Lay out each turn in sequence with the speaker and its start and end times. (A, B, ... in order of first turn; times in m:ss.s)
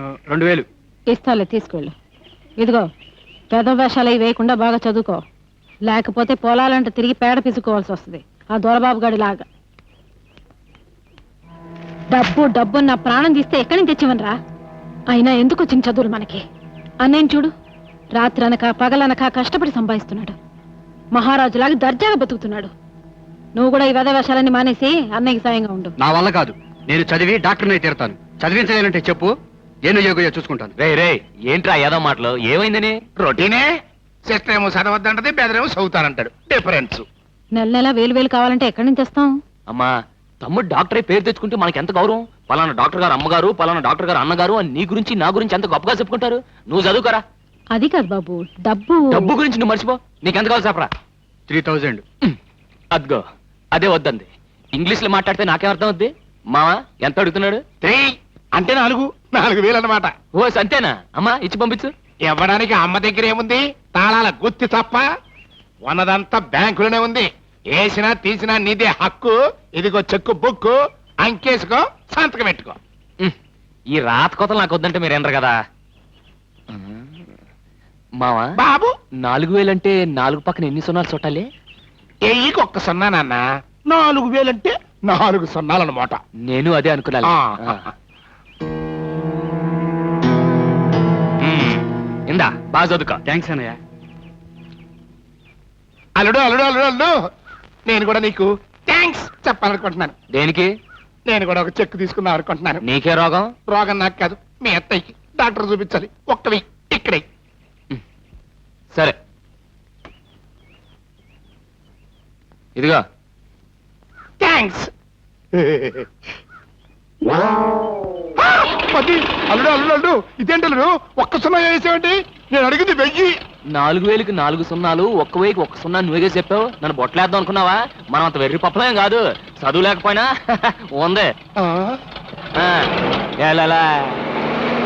0:00.3-0:00.6 A
0:01.1-0:01.9 B
0:02.6-0:02.9 B
0:03.5-0:05.2 B
0:05.8-0:09.4 B
0:12.1-0:14.4 B
0:15.1-0:16.4 B
0:17.0-0:17.5 B
0:18.1-0:20.3 B
0:21.1-0:22.7 B
0:23.5-0:25.9 B
0:26.0-0:29.3 A
0:29.8-0:30.7 A
0:30.8-0:33.4 C
0:33.4-0:33.7 D
0:34.2-0:37.0 D
0:37.5-0:39.4 B
0:40.4-0:47.2 C
0:47.7-0:49.3 B
0:49.1-0:50.9 C
0:51.5-0:52.0 A
0:52.9-0:57.6 C
0:57.8-1:00.1 D
1:00.3-1:01.9 C
1:02.3-1:05.0 D
1:05.8-1:12.8 D
1:13.9-1:15.6 C
1:16.7-1:17.0 C
1:18.2-1:18.4 C
1:18.6-1:18.9 D
1:19.2-1:21.5 C
1:22.2-1:26.2 D
1:26.5-1:27.8 C
1:27.2-1:27.9 D
1:31.4-1:33.2 C
1:33.2-1:33.8 A
1:36.2-1:37.1 D
1:37.9-1:40.1 D
1:40.3-1:40.7 C
1:41.3-1:42.8 D
1:42.8-1:43.5 C
1:43.7-1:47.2 D
1:52.8-1:53.0 C
1:54.4-1:54.9 D
1:55.5-1:56.1 D
1:58.5-2:03.4 D
2:03.7-2:11.3 C
2:11.6-2:11.9 D
2:12.6-2:12.9 C
2:13.4-2:14.2 C